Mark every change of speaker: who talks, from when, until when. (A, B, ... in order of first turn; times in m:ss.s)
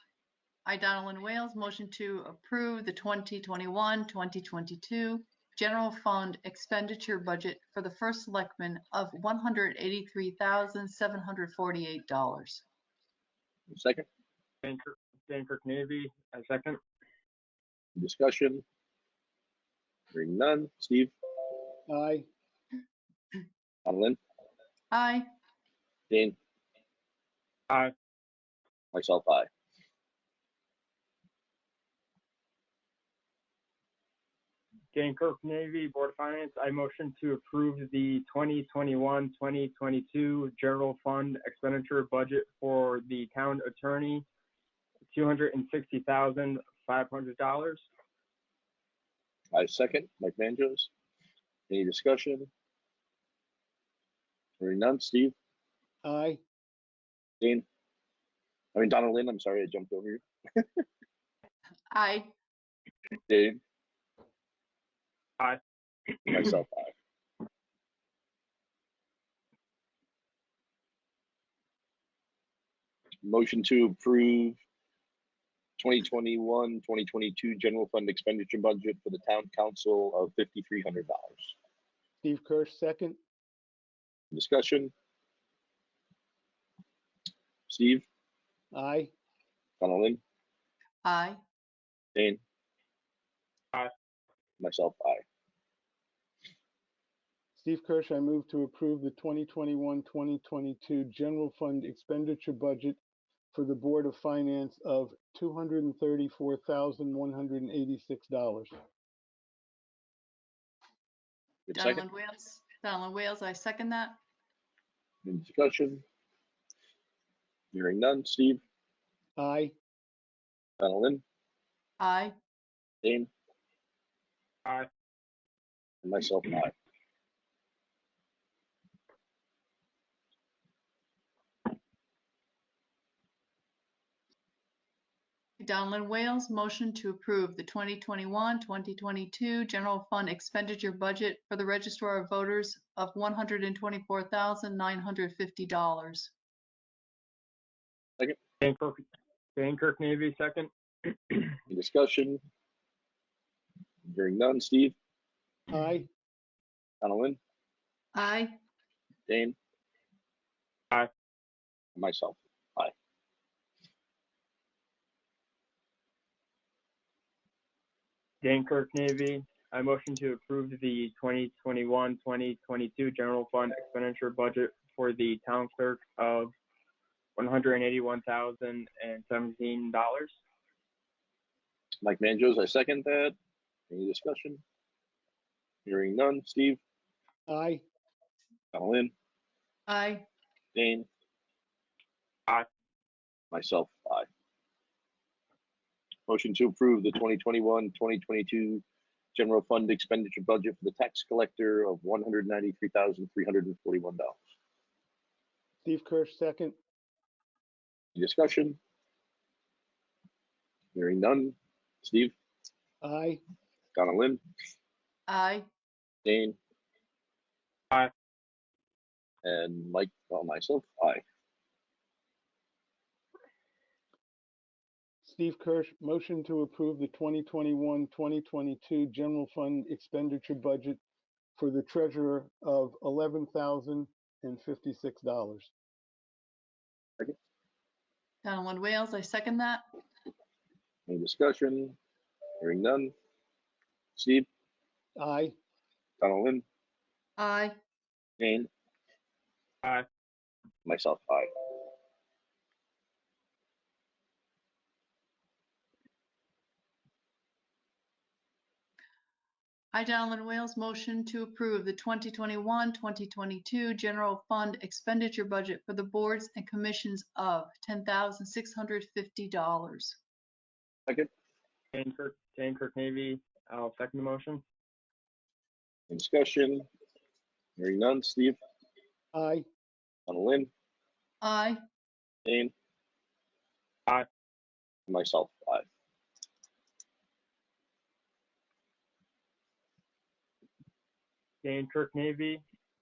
0:00.7-0:12.6 A
0:13.7-0:14.1 B
0:14.6-0:16.8 C
0:18.0-0:18.6 B
0:20.1-0:21.1 B
0:21.9-0:22.3 D
0:23.8-0:24.2 B
0:24.9-0:25.3 A
0:26.1-0:26.4 B
0:28.9-0:29.5 B
0:34.9-0:44.2 C
0:45.1-0:47.8 C
0:49.5-0:50.9 B
0:51.7-0:52.5 B
0:54.6-0:55.4 B
0:56.0-0:56.4 D
0:58.8-1:00.7 B
1:01.9-1:02.3 A
1:03.3-1:03.6 B
1:06.3-1:06.9 B
1:13.2-1:14.6 B
1:15.8-1:21.6 B
1:22.2-1:23.2 D
1:24.3-1:24.9 B
1:27.7-1:28.1 B
1:28.7-1:29.1 D
1:29.8-1:30.2 B
1:31.0-1:31.4 A
1:32.2-1:32.4 B
1:34.6-1:35.2 B
1:37.6-1:43.0 D
1:43.5-1:48.7 D
1:51.7-1:52.0 B
1:51.7-1:54.2 A
1:55.2-1:56.0 B
1:57.7-1:58.6 B
1:59.4-1:59.7 D
2:00.8-2:01.2 B
2:02.0-2:02.4 A
2:03.0-2:03.3 B
2:06.0-2:06.7 B
2:15.6-2:26.3 A
2:28.6-2:29.0 C
2:29.6-2:31.5 C
2:31.7-2:32.4 B
2:34.1-2:35.0 B
2:35.7-2:36.1 D
2:37.0-2:37.4 B
2:38.2-2:38.6 A
2:39.3-2:39.6 B
2:42.0-2:42.9 B
2:48.4-2:56.5 C
2:57.4-3:00.3 C
3:02.0-3:03.4 B
3:03.9-3:04.6 B
3:05.9-3:06.8 B
3:07.5-3:07.8 D
3:08.7-3:09.1 B
3:09.9-3:10.3 A
3:10.8-3:11.1 B
3:13.5-3:14.3 B
3:16.3-3:18.8 B
3:19.4-3:24.4 B
3:25.8-3:26.8 D
3:28.2-3:28.8 B
3:31.0-3:32.3 B
3:33.0-3:33.4 D
3:34.0-3:34.4 B
3:35.3-3:35.7 A
3:36.2-3:36.6 B
3:39.4-3:41.2 B
3:45.2-3:51.0 D
3:51.6-3:55.7 D
3:58.4-3:59.8 A
4:01.1-4:02.0 B
4:02.6-4:03.1 B
4:04.2-4:04.5 B
4:05.2-4:05.6 D
4:06.2-4:06.6 B
4:07.4-4:07.8 A
4:08.4-4:08.7 B
4:10.9-4:11.8 B
4:19.9-4:30.2 A
4:31.9-4:34.6 C
4:36.1-4:36.9 B
4:37.8-4:38.6 B
4:39.3-4:39.7 D
4:40.3-4:40.7 B
4:41.4-4:41.8 A
4:42.4-4:42.7 B
4:45.1-4:45.9 B
4:51.6-4:52.6 C